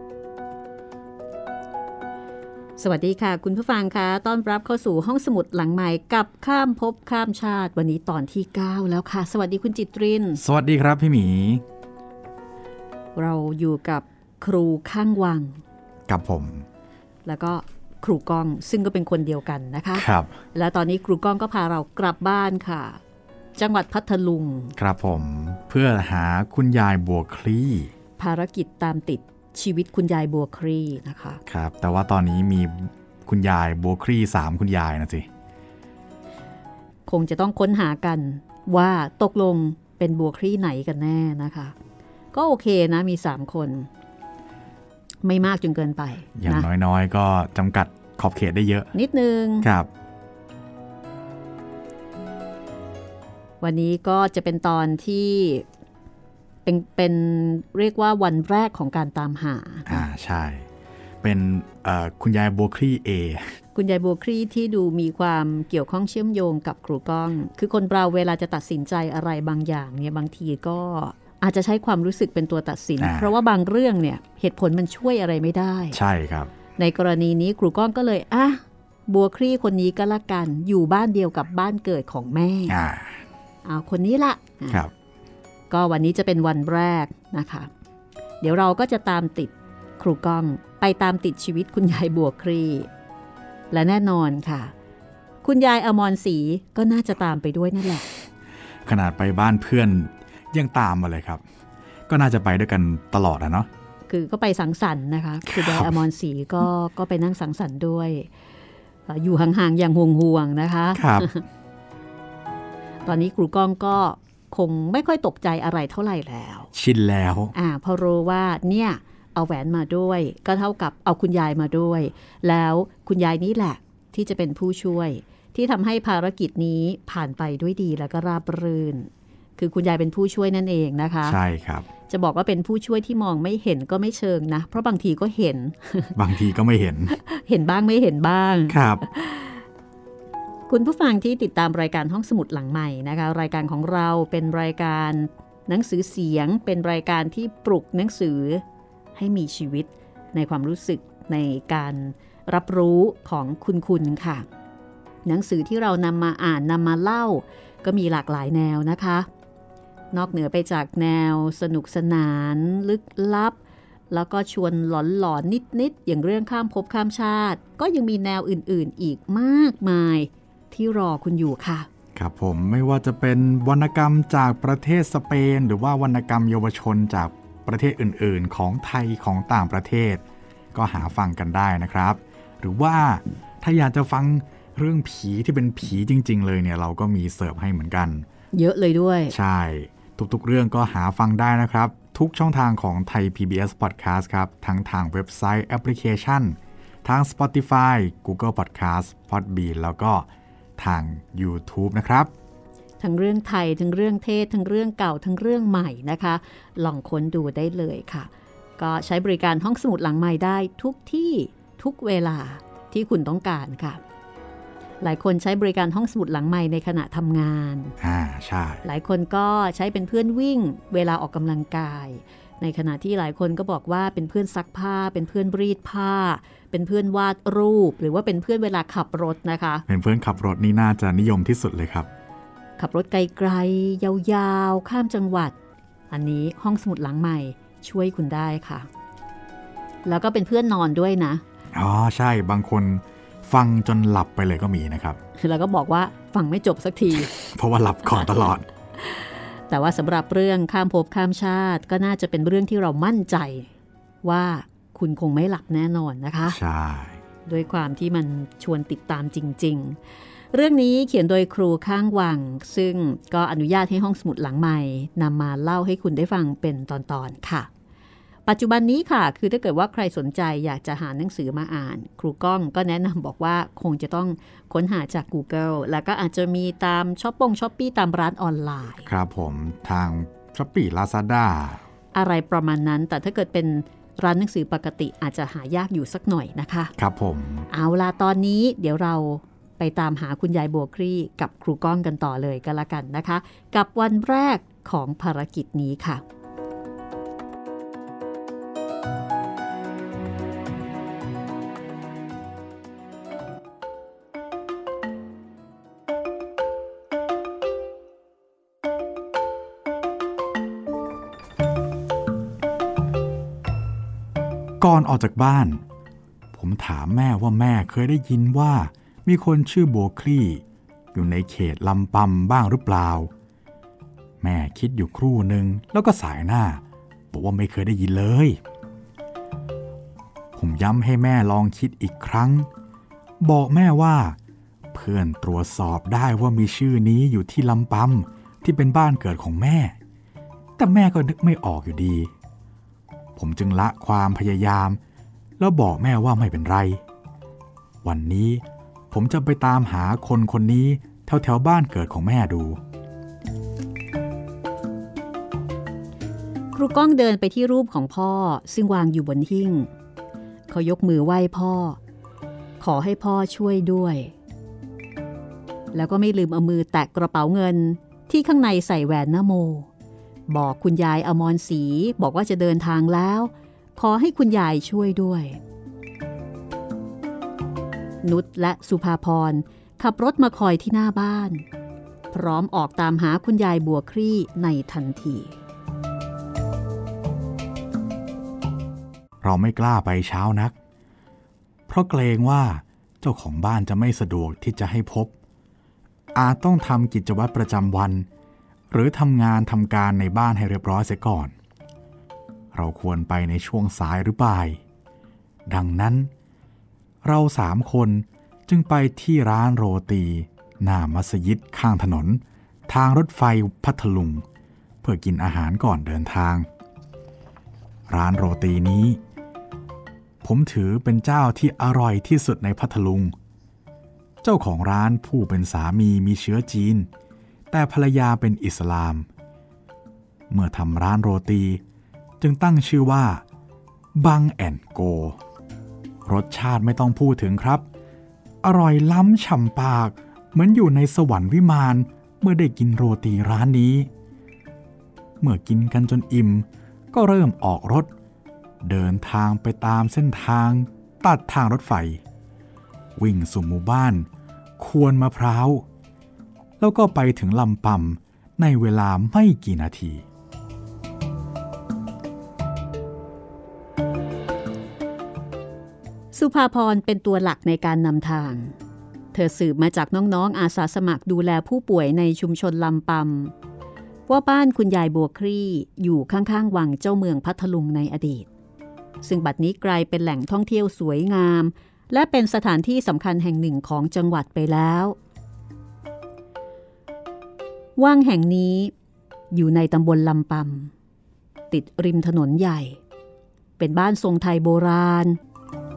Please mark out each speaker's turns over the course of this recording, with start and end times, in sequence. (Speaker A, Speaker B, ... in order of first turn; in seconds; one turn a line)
Speaker A: 2.8-10.4
Speaker B: 10.4-11.6
Speaker A: 13.2-15.6
Speaker B: 16.1-16.7
Speaker A: 17.2-23.0
Speaker B: 19.9-20.4
Speaker A: 23.6-24.8
Speaker B: 24.8-27.9
Speaker A: 28.2-31.4
Speaker B: 31.5-35.3
Speaker A: 37.1-41.8
Speaker A: 42.3-43.9
Speaker A: 45.2-46.7
Speaker B: 46.4-48.9
Speaker A: 48.9-49.7
Speaker B: 49.6-49.9
Speaker A: 53.6-55.7
Speaker A: 56.6-60.0
Speaker B: 59.9-60.7
Speaker B: 61.2-63.6
Speaker A: 63.8-76.0
Speaker B: 73.0-73.3
Speaker B: 75.9-76.5
Speaker A: 76.8-82.8
Speaker B: 82.7-83.2
Speaker A: 83.7-84.8
Speaker A: 85.7-87.7
Speaker A: 88.4-92.9
Speaker A: 93.7-94.7
Speaker A: 95.4-98.1
Speaker B: 98.9-101.4
Speaker B: 102.1-103.7
Speaker A: 104.1-108.3
Speaker B: 105.5-106.0
Speaker A: 109.1-111.5
Speaker B: 110.9-111.3
Speaker A: 113.1-116.7
Speaker B: 116.7-117.5
Speaker A: 117.5-131.4
Speaker B: 131.2-131.9
Speaker A: 132.1-136.2
Speaker B: 136.2-137.2
Speaker A: 137.1-139.6
Speaker B: 138.7-139.0
Speaker A: 140.7-148.6
Speaker A: 149.2-154.5
Speaker A: 155.2-159.3
Speaker A: 160.1-163.6
Speaker A: 164.1-171.9
Speaker B: 172.2-180.2
Speaker B: 180.7-188.3
Speaker A: 188.5-189.3
Speaker B: 189.3-202.3
Speaker A: 203.0-214.0
Speaker A: 215.0-218.0
Speaker B: 218.0-218.8
Speaker A: 218.8-229.8
Speaker B: 229.9-232.1
Speaker A: 232.8-235.6
Speaker A: 236.1-238.9
Speaker A: 240.1-241.4
Speaker B: 241.7-245.2
Speaker A: 245.4-247.3
Speaker B: 247.3-248.7
Speaker A: 249.0-253.7
Speaker A: 254.2-256.6
Speaker B: 256.5-257.2
Speaker A: 257.5-260.0
Speaker A: 260.5-267.7
Speaker A: 268.5-279.1
Speaker B: 279.1-281.8
Speaker A: 282.1-286.9
Speaker B: 287.0-287.7
Speaker A: 287.7-296.2
Speaker B: 314.8-315.8
Speaker B: 316.5-323.3
Speaker B: 324.4-328.6
Speaker B: 330.6-332.7
Speaker B: 333.4-334.4
Speaker B: 334.9-340.0
Speaker B: 340.8-342.3
Speaker B: 343.4-345.0
Speaker B: 345.6-347.0
Speaker B: 348.0-352.8
Speaker A: 356.7-359.9
Speaker A: 360.7-362.0
Speaker A: 362.8-364.4
Speaker A: 365.9-369.9
Speaker A: 370.5-375.6
Speaker A: 378.2-381.6
Speaker A: 382.3-385.6
Speaker B: 389.4-390.7
Speaker B: 391.9-395.3
Speaker B: 396.4-398.3
Speaker B: 398.9-401.5
Speaker B: 402.7-404.8
Speaker B: 405.7-406.3
Speaker B: 407.2-414.4
Speaker B: 415.0-416.7
Speaker B: 418.1-419.2
Speaker B: 420.4-423.4
Speaker B: 424.4-427.1
Speaker B: 427.7-429.3
Speaker B: 430.5-431.8
Speaker B: 432.4-433.4
Speaker B: 434.2-435.4
Speaker B: 436.3-437.9
Speaker B: 438.6-444.1
Speaker B: 445.4-448.1
Speaker B: 448.8-452.2
Speaker B: 453.2-455.9
Speaker B: 456.8-460.2
Speaker A: 466.3-468.7
Speaker A: 469.3-473.5
Speaker A: 474.3-478.5
Speaker A: 479.2-485.2
Speaker A: 488.0-488.9
Speaker A: 489.5-490.9
Speaker A: 491.7-493.0
Speaker A: 493.8-495.4